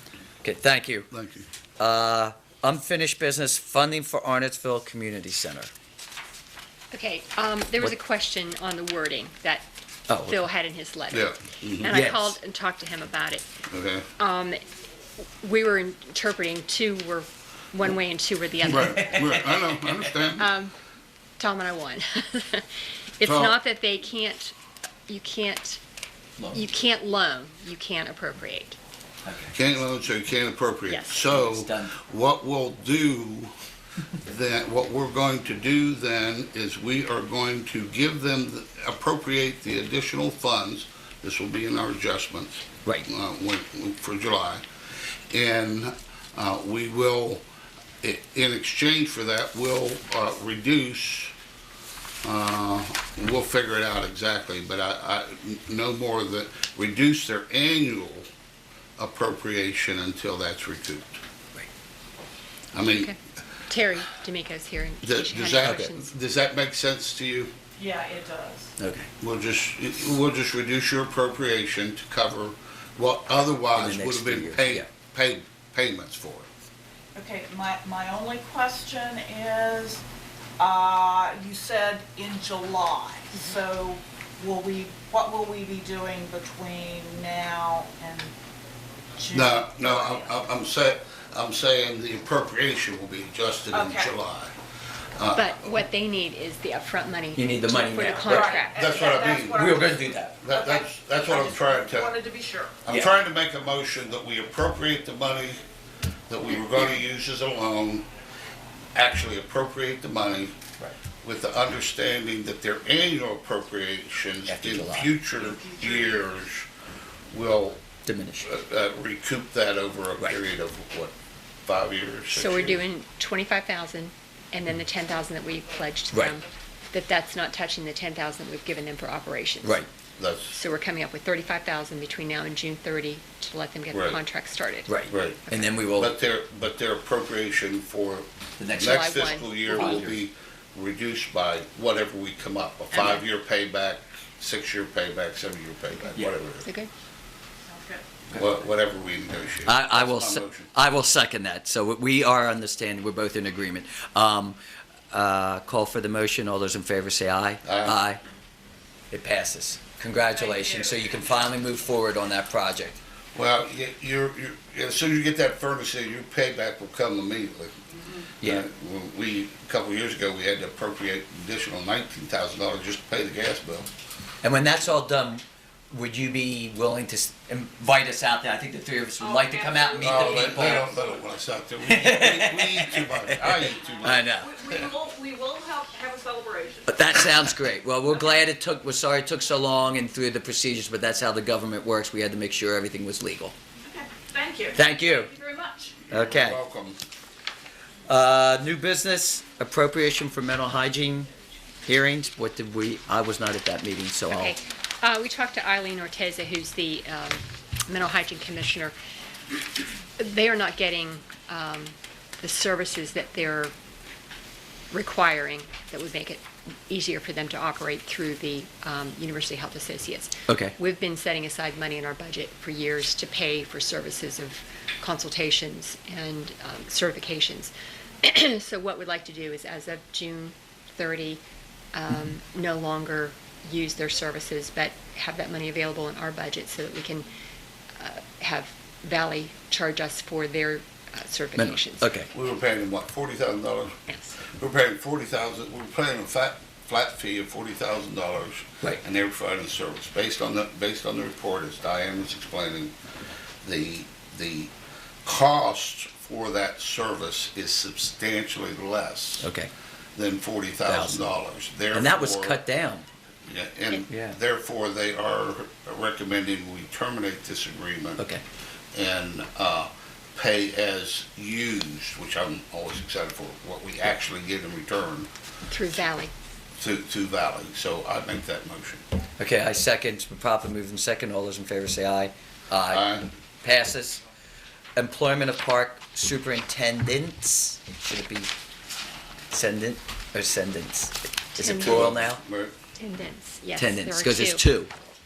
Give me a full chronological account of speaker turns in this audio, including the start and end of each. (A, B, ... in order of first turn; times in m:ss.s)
0:00.4-0:01.1 A
0:01.1-0:01.4 B
0:01.8-0:05.7 A
0:06.9-0:09.7 C
0:10.1-0:10.4 A
0:10.2-0:13.5 C
0:11.1-0:11.9 B
0:11.8-0:12.4 A
0:13.7-0:14.0 B
0:14.2-0:14.6 C
0:15.4-0:19.2 C
0:18.6-0:20.5 B
0:18.9-0:19.7 A
0:20.4-0:20.7 C
0:21.4-0:24.5 C
0:23.2-0:23.6 B
0:25.1-0:25.8 C
0:26.4-0:26.6 A
0:26.5-0:28.8 C
0:29.2-0:29.6 A
0:29.5-0:33.5 B
0:30.9-0:31.2 C
0:31.2-0:31.9 A
0:34.2-0:44.6 B
0:45.3-0:47.4 B
0:48.0-0:51.3 B
0:52.2-0:58.2 B
0:59.0-1:01.2 B
1:02.7-1:03.1 B
1:02.8-1:06.1 C
1:05.0-1:07.5 B
1:05.6-1:05.9 A
1:07.8-1:08.7 D
1:08.8-1:09.1 A
1:09.2-1:16.5 B
1:13.7-1:14.9 A
1:17.1-1:20.0 D
1:20.6-1:28.3 D
1:29.2-1:30.4 D
1:29.3-1:34.5 B
1:33.7-1:34.1 D
1:35.1-1:35.8 B
1:35.3-1:38.8 C
1:37.3-1:38.6 A
1:38.2-1:42.8 D
1:38.7-1:39.8 B
1:39.6-1:40.4 A
1:40.4-1:42.1 B
1:42.8-1:45.6 B
1:46.3-1:48.1 B
1:48.9-1:50.6 B
1:51.2-1:56.7 B
1:54.5-1:55.1 A
1:55.3-1:56.3 D
1:57.3-1:57.8 B
1:58.0-1:58.5 A
1:58.4-2:01.1 B
2:01.6-2:02.8 B
2:02.3-2:09.8 C
2:10.2-2:10.5 B
2:10.5-2:15.7 C
2:13.9-2:14.2 B
2:14.9-2:16.1 A
2:15.1-2:26.6 B
2:18.6-2:20.2 A
2:18.8-2:20.0 C
2:26.6-2:26.9 C
2:27.6-2:28.1 D
2:28.3-2:30.7 B
2:29.6-2:34.6 A
2:35.1-2:38.2 A
2:37.6-2:38.0 B
2:39.1-2:43.0 A
2:40.2-2:41.3 D
2:43.3-2:47.8 B
2:48.4-2:53.9 B
2:54.4-3:00.9 A
2:59.2-3:01.3 D
3:00.0-3:04.3 B
3:01.9-3:04.7 A
3:03.7-3:07.3 D
3:06.9-3:13.5 A
3:13.8-3:16.0 D
3:14.7-3:15.3 A
3:16.1-3:17.0 B
3:16.1-3:16.6 A
3:18.0-3:21.3 A
3:21.8-3:24.6 A
3:24.3-3:28.9 C
3:30.2-3:33.7 C
3:34.9-3:51.4 C
3:40.5-3:40.8 A
3:51.9-3:57.3 C
3:58.0-4:02.1 C
4:01.6-4:02.3 A
4:02.3-4:04.0 B
4:04.1-4:04.4 C
4:04.5-4:12.9 B
4:13.6-4:14.7 B
4:15.2-4:19.5 B
4:19.4-4:19.7 A
4:20.2-4:22.6 B
4:20.9-4:21.3 A
4:21.9-4:23.0 A
4:23.4-4:28.3 B
4:24.1-4:24.4 A
4:28.9-4:35.3 B
4:35.7-4:36.3 C
4:36.8-4:39.0 B
4:39.4-4:44.2 A
4:42.9-4:43.2 B
4:45.0-4:48.5 A
4:49.5-4:52.4 A
4:51.6-4:52.1 C
4:51.6-4:52.7 B
4:53.0-4:54.6 C
4:53.8-4:54.9 A